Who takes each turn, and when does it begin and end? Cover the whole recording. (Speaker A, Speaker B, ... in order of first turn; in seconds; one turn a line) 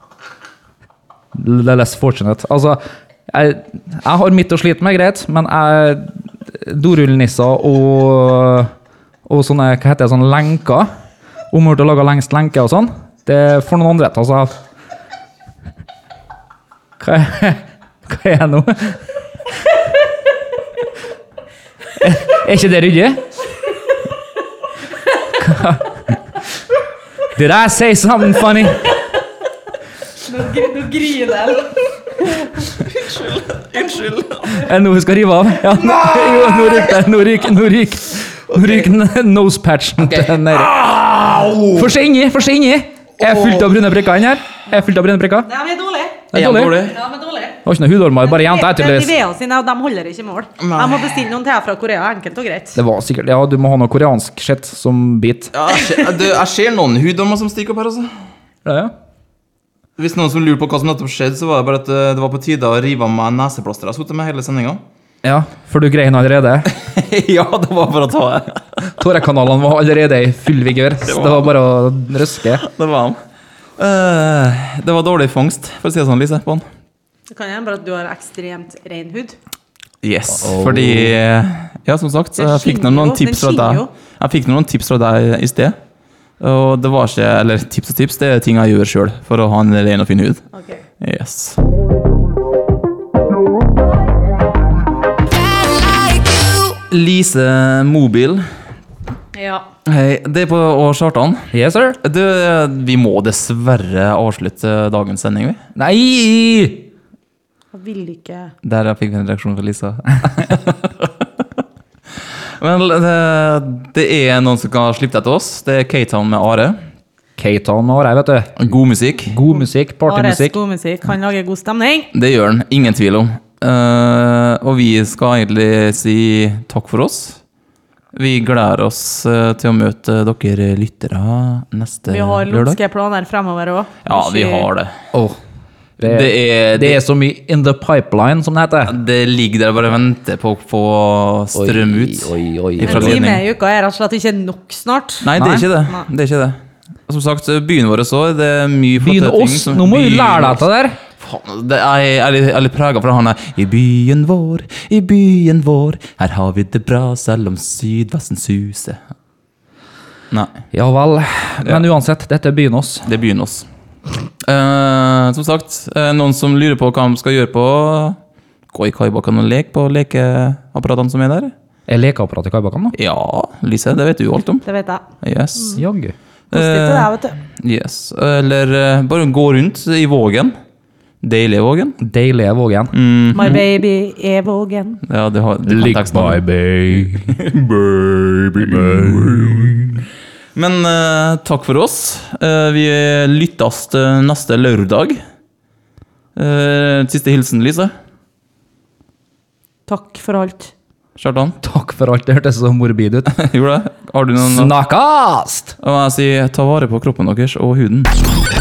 Speaker A: 1.3-8.7
Speaker A: 9.3-10.9
Speaker A: 11.5-14.6
Speaker A: 17.0-19.8
Speaker A: 21.9-23.3
Speaker A: 25.2-26.3
Speaker A: 27.3-28.9
Speaker B: 30.2-32.7
Speaker C: 32.7-34.6
Speaker A: 34.5-40.7
Speaker C: 40.2-41.9
Speaker A: 41.7-45.5
Speaker C: 43.2-43.5
Speaker B: 45.5-46.3
Speaker A: 46.3-46.8
Speaker C: 46.3-47.0
Speaker B: 46.8-47.6
Speaker A: 47.6-49.1
Speaker B: 48.3-52.8
Speaker C: 50.6-51.1
Speaker A: 52.8-55.7
Speaker C: 55.5-58.1
Speaker A: 58.6-58.9
Speaker C: 60.0-64.8
Speaker A: 65.2-66.7
Speaker C: 66.7-68.7
Speaker A: 69.0-72.6
Speaker C: 71.0-71.5
Speaker C: 72.6-73.2
Speaker C: 73.8-76.7
Speaker B: 77.3-79.4
Speaker C: 80.0-85.8
Speaker A: 80.3-81.2
Speaker B: 82.3-83.9
Speaker C: 86.4-90.4
Speaker B: 90.5-90.8
Speaker C: 91.0-91.6
Speaker C: 96.9-98.5
Speaker B: 99.3-99.6
Speaker C: 99.8-101.5
Speaker A: 101.5-102.0
Speaker C: 102.0-105.6
Speaker A: 105.8-106.8
Speaker B: 107.7-108.5
Speaker C: 108.6-111.3
Speaker C: 112.6-116.8
Speaker A: 117.4-118.5
Speaker C: 118.6-119.3
Speaker A: 119.2-120.6
Speaker B: 120.0-122.1
Speaker C: 122.1-127.4
Speaker C: 128.1-132.8
Speaker B: 132.1-134.7
Speaker C: 134.1-134.9
Speaker A: 135.1-135.4
Speaker A: 136.0-138.9
Speaker C: 136.0-137.0
Speaker C: 138.9-143.4
Speaker A: 141.5-143.2
Speaker B: 142.8-145.3
Speaker C: 145.2-150.6
Speaker A: 145.3-145.7
Speaker A: 149.0-151.0
Speaker C: 151.2-159.0
Speaker C: 160.3-160.6
Speaker A: 160.7-163.1
Speaker C: 163.1-163.7
Speaker C: 164.4-168.2
Speaker C: 168.7-171.5
Speaker A: 171.9-172.9
Speaker C: 172.9-174.6
Speaker B: 174.6-175.0
Speaker C: 175.2-175.8
Speaker B: 175.6-175.8
Speaker A: 175.8-176.1
Speaker B: 176.5-177.4
Speaker C: 176.5-180.5
Speaker C: 181.2-182.0
Speaker A: 182.0-182.9
Speaker C: 182.9-183.6
Speaker B: 183.3-185.0
Speaker C: 185.0-189.9
Speaker A: 185.6-187.4
Speaker A: 188.6-189.8
Speaker C: 190.5-195.2
Speaker C: 196.3-197.9
Speaker B: 199.9-200.7
Speaker C: 201.2-201.6
Speaker A: 201.6-203.3
Speaker C: 203.3-204.7
Speaker A: 204.4-205.7
Speaker C: 205.8-208.1